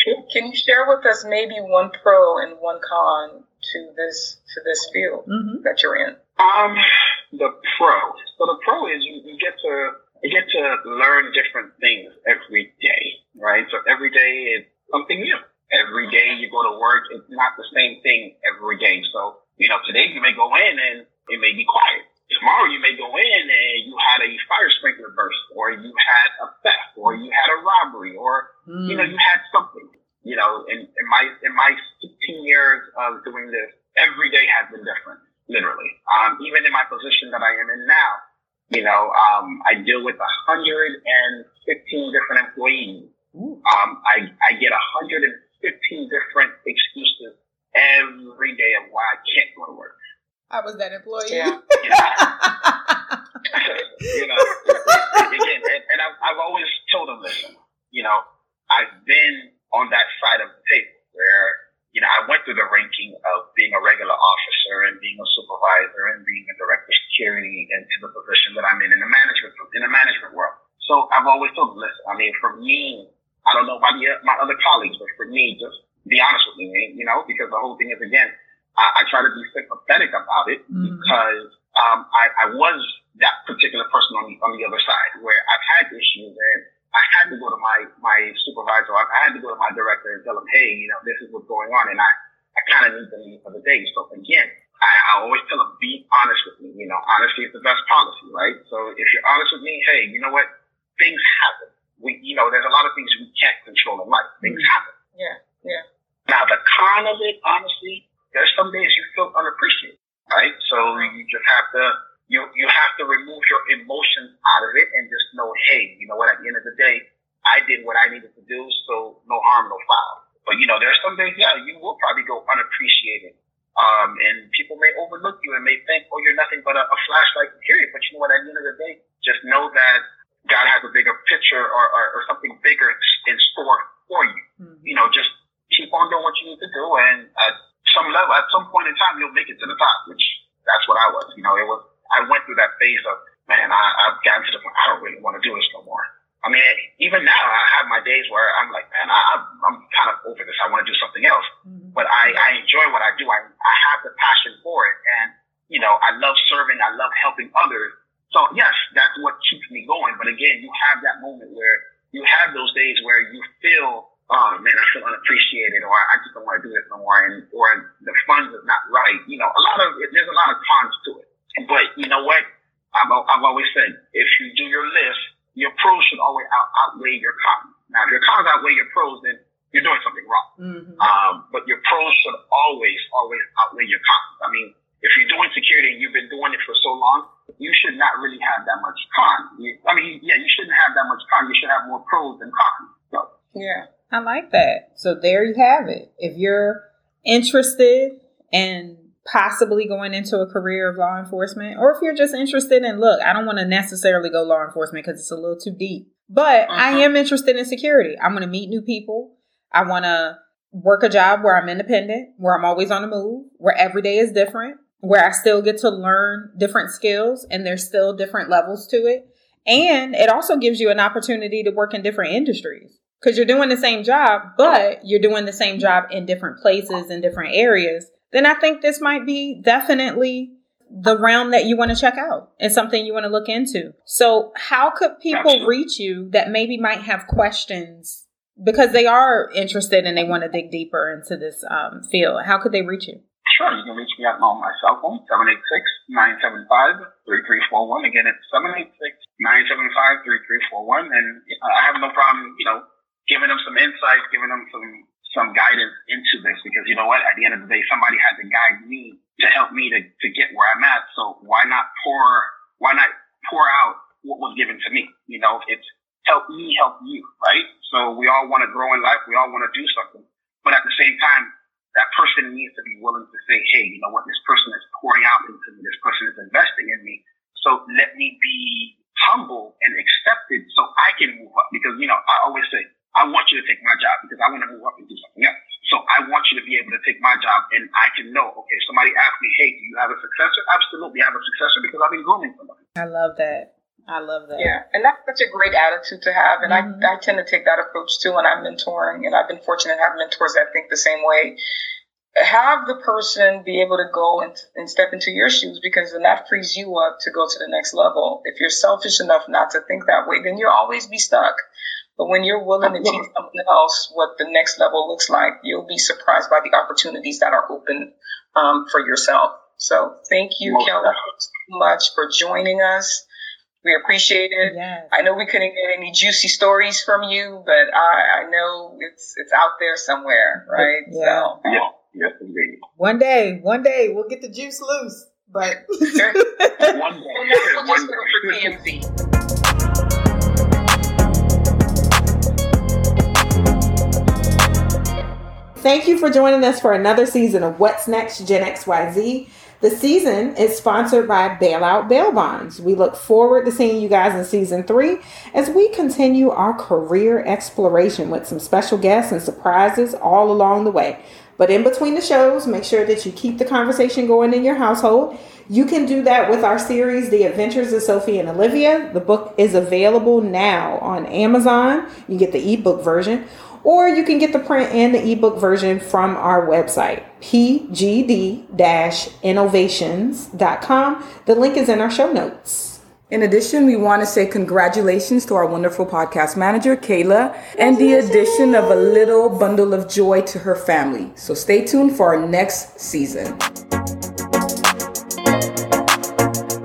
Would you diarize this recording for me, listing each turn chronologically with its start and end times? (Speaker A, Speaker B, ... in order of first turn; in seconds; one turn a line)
Speaker A: 0.3-6.2
Speaker B: 5.3-5.6
Speaker C: 6.4-43.1
Speaker B: 28.7-29.1
Speaker B: 43.3-43.6
Speaker C: 43.6-49.9
Speaker B: 50.5-53.2
Speaker A: 51.2-51.5
Speaker C: 51.8-52.2
Speaker C: 53.5-104.9
Speaker B: 54.1-55.3
Speaker B: 80.7-81.2
Speaker B: 104.4-104.7
Speaker A: 105.2-105.8
Speaker C: 106.3-180.5
Speaker B: 134.6-134.9
Speaker B: 151.7-152.5
Speaker B: 180.6-181.1
Speaker C: 181.0-193.3
Speaker A: 193.5-193.8
Speaker B: 194.1-243.2
Speaker A: 206.7-207.1
Speaker C: 235.3-235.7
Speaker C: 243.5-292.8
Speaker B: 293.0-294.7
Speaker A: 294.6-301.6
Speaker B: 296.6-297.1
Speaker A: 302.4-311.6
Speaker A: 312.2-323.2
Speaker C: 312.8-313.2
Speaker C: 320.6-321.1
Speaker A: 323.8-331.6
Speaker B: 324.6-325.1
Speaker B: 330.7-331.6
Speaker C: 331.6-332.8
Speaker B: 333.0-336.9
Speaker A: 336.1-336.4
Speaker C: 336.8-338.8
Speaker A: 337.4-339.1
Speaker D: 345.8-383.0
Speaker E: 383.3-393.6